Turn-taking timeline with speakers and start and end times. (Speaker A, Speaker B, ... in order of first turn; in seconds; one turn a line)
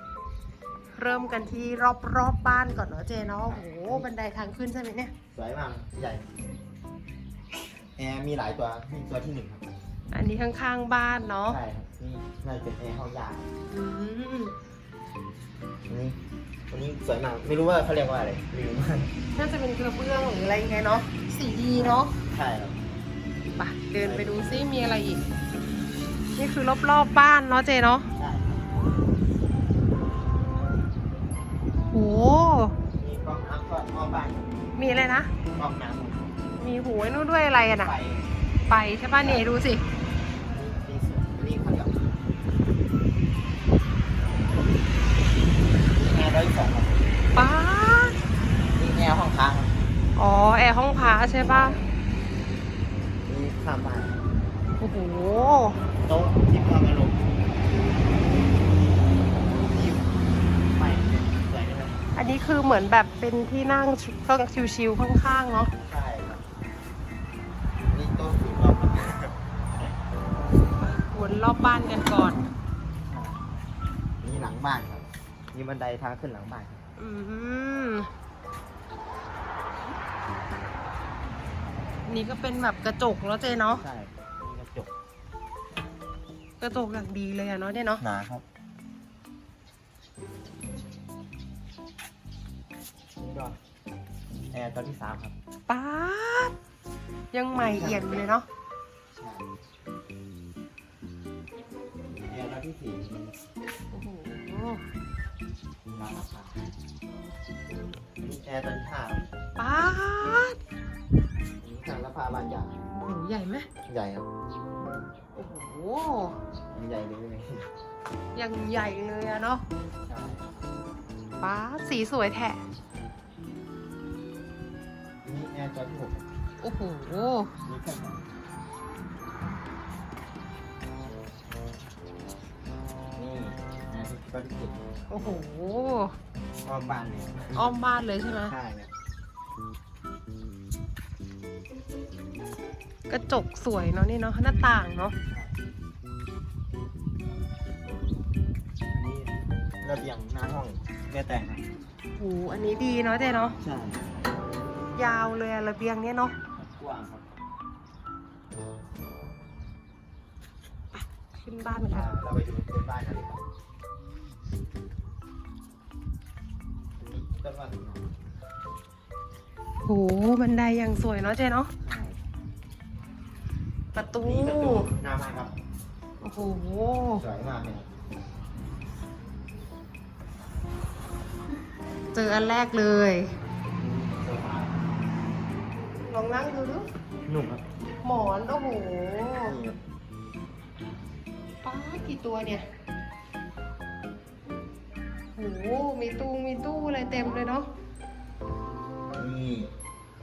Speaker A: 1.0-5.1
Speaker B: 3.5-4.1
Speaker B: 5.3-6.3
Speaker B: 8.0-9.7
Speaker A: 10.1-11.6
Speaker B: 11.5-13.5
Speaker A: 13.7-14.6
Speaker B: 15.9-16.2
Speaker B: 16.7-19.1
Speaker A: 19.4-22.1
Speaker B: 21.8-22.8
Speaker A: 23.6-25.3
Speaker B: 24.0-24.6
Speaker A: 26.4-28.1
Speaker B: 28.2-28.6
Speaker A: 31.9-32.8
Speaker B: 33.0-34.5
Speaker A: 34.8-35.3
Speaker B: 35.5-36.3
Speaker A: 36.6-37.9
Speaker B: 37.8-38.3
Speaker A: 38.7-39.8
Speaker B: 39.2-39.5
Speaker B: 40.5-42.0
Speaker B: 45.9-47.0
Speaker A: 47.3-48.2
Speaker B: 48.8-49.8
Speaker A: 50.1-51.8
Speaker B: 53.3-54.2
Speaker A: 54.8-55.9
Speaker B: 56.0-57.2
Speaker B: 59.5-60.1
Speaker B: 60.7-62.0
Speaker A: 62.1-65.7
Speaker B: 65.8-66.4
Speaker B: 67.9-69.9
Speaker A: 70.8-72.4
Speaker B: 73.1-73.4
Speaker B: 74.2-76.8
Speaker A: 77.0-78.1
Speaker A: 82.1-83.8
Speaker B: 83.7-84.9
Speaker A: 86.6-88.0
Speaker B: 88.0-88.4
Speaker B: 93.2-93.6
Speaker B: 94.5-95.3
Speaker A: 95.7-96.5
Speaker A: 97.3-98.5
Speaker B: 97.5-98.2
Speaker B: 99.1-99.5
Speaker B: 102.1-103.2
Speaker A: 103.9-104.9
Speaker B: 105.9-106.7
Speaker B: 108.2-109.3
Speaker A: 109.6-110.6
Speaker B: 111.6-112.7
Speaker A: 112.9-113.7
Speaker B: 113.9-114.3
Speaker A: 115.3-116.4
Speaker B: 116.7-117.7
Speaker A: 118.3-119.7
Speaker B: 120.0-120.6
Speaker A: 121.4-122.6
Speaker B: 125.2-126.3
Speaker A: 126.6-127.5
Speaker B: 127.7-128.3
Speaker B: 133.2-134.8
Speaker A: 135.1-136.2
Speaker B: 136.7-137.7
Speaker A: 137.5-138.6
Speaker B: 138.4-138.9
Speaker A: 143.1-145.2
Speaker B: 145.2-145.5
Speaker B: 148.9-151.7
Speaker A: 152.2-153.6
Speaker B: 153.6-154.0
Speaker A: 154.9-156.4
Speaker B: 156.6-157.3
Speaker A: 160.9-162.1
Speaker B: 161.9-163.4
Speaker B: 167.0-168.1
Speaker A: 169.8-171.7
Speaker B: 171.8-172.2
Speaker A: 173.9-174.9
Speaker B: 174.2-175.5
Speaker A: 176.2-177.2
Speaker B: 177.1-177.9
Speaker A: 182.1-183.3
Speaker B: 183.8-184.8
Speaker A: 186.1-186.9
Speaker B: 187.3-187.6
Speaker A: 188.0-189.6
Speaker B: 189.4-189.8
Speaker A: 191.6-192.7
Speaker A: 195.4-197.7
Speaker B: 199.2-199.7